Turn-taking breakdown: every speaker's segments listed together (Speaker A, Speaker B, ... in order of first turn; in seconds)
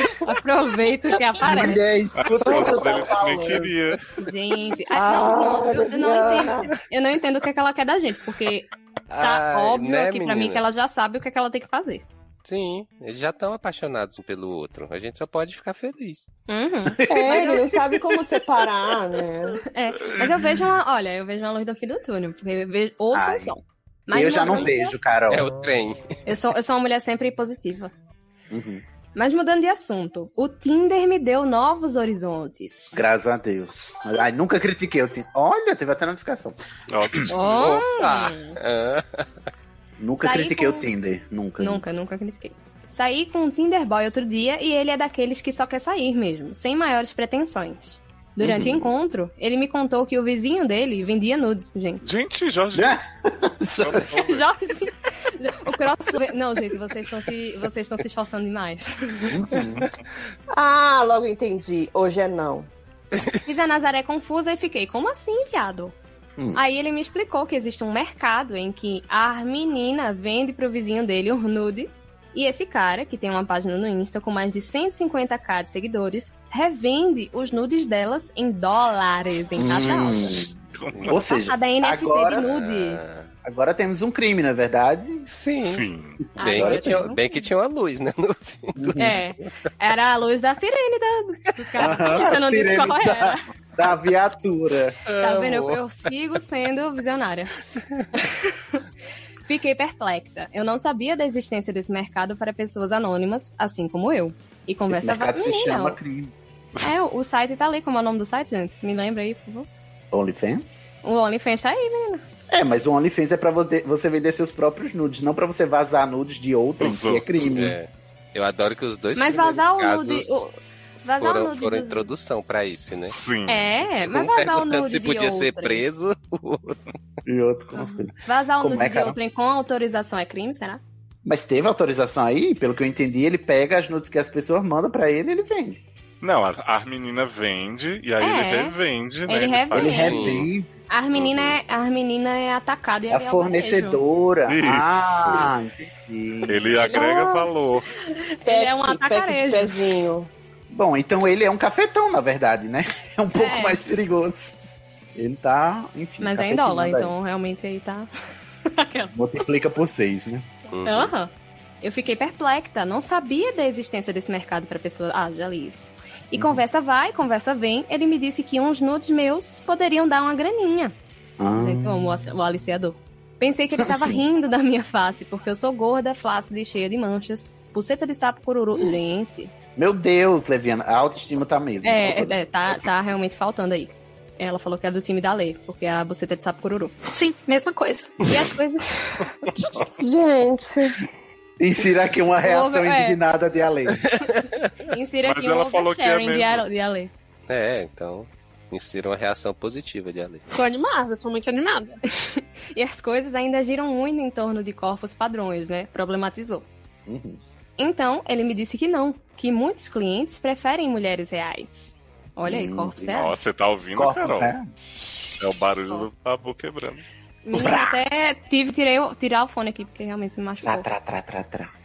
Speaker A: 0.2-1.8, 4.2-8.7, 9.2-12.0, 16.5-17.6, 19.7-25.0, 26.3-27.9, 29.1-33.0, 37.3-38.5, 40.2-40.9, 41.6-52.0, 54.2-59.4, 63.5-66.0, 66.5-80.4, 81.3-83.0, 86.4-87.2, 89.0-93.4, 95.2-97.5, 98.2-98.8, 99.5-106.0, 106.8-109.7, 111.0-112.2, 119.2-120.5, 121.0-122.1, 123.5-125.8, 127.8-130.8, 138.2-138.7, 139.3-144.0, 148.1-149.8, 153.4-153.8, 156.2-158.1, 158.7-159.1, 160.8-161.3, 161.8-170.9, 171.6-179.5, 181.8-186.9, 188.2-189.3, 192.4-193.2, 194.9-197.1, 202.4-206.7, 207.8-213.4, 217.4-220.9
Speaker B: 1.4-3.6, 16.9-17.7, 23.1-23.5, 24.1-25.5, 28.5-28.8, 32.9-36.5, 40.0-41.8, 48.4-48.9, 52.7-54.2, 59.3-59.9, 79.6-80.5, 81.0-82.6, 83.4-85.3, 86.5-87.1, 88.8-89.2, 91.8-95.0, 104.9-106.3, 110.1-110.9, 112.5-117.8, 127.2-129.2, 131.2-135.8, 139.7-140.7, 143.1-146.9, 150.7-154.6, 155.1-157.1, 159.1-160.4, 166.3-166.6, 171.4-172.2, 173.8-174.2, 179.8-182.4, 191.6-194.0, 207.1-207.4, 212.4-213.1, 213.9-214.6, 217.5-218.0, 220.6-221.7
Speaker C: 2.2-4.1, 36.9-37.7, 52.0-53.0, 53.8-54.4, 80.7-81.2, 85.6-86.2, 116.8-117.3, 123.1-123.7, 136.2-140.5, 141.1-141.6, 144.5-145.5, 146.5-147.9, 195.2-196.6, 213.1-214.6, 215.4-217.0
Speaker D: 2.3-3.7, 4.9-6.7, 17.1-19.6, 60.5-62.7, 146.9-147.5, 148.4-150.3, 190.0-191.0
Speaker E: 9.1-10.6, 12.4-16.2, 25.3-26.0, 37.3-39.3, 82.4-83.3, 85.3-85.9, 86.4-89.0, 95.1-95.8, 117.5-120.4, 121.2-123.2, 124.1-126.8, 140.0-140.4, 160.7-161.1, 197.5-200.4
Speaker F: 187.2-188.0, 200.5-202.0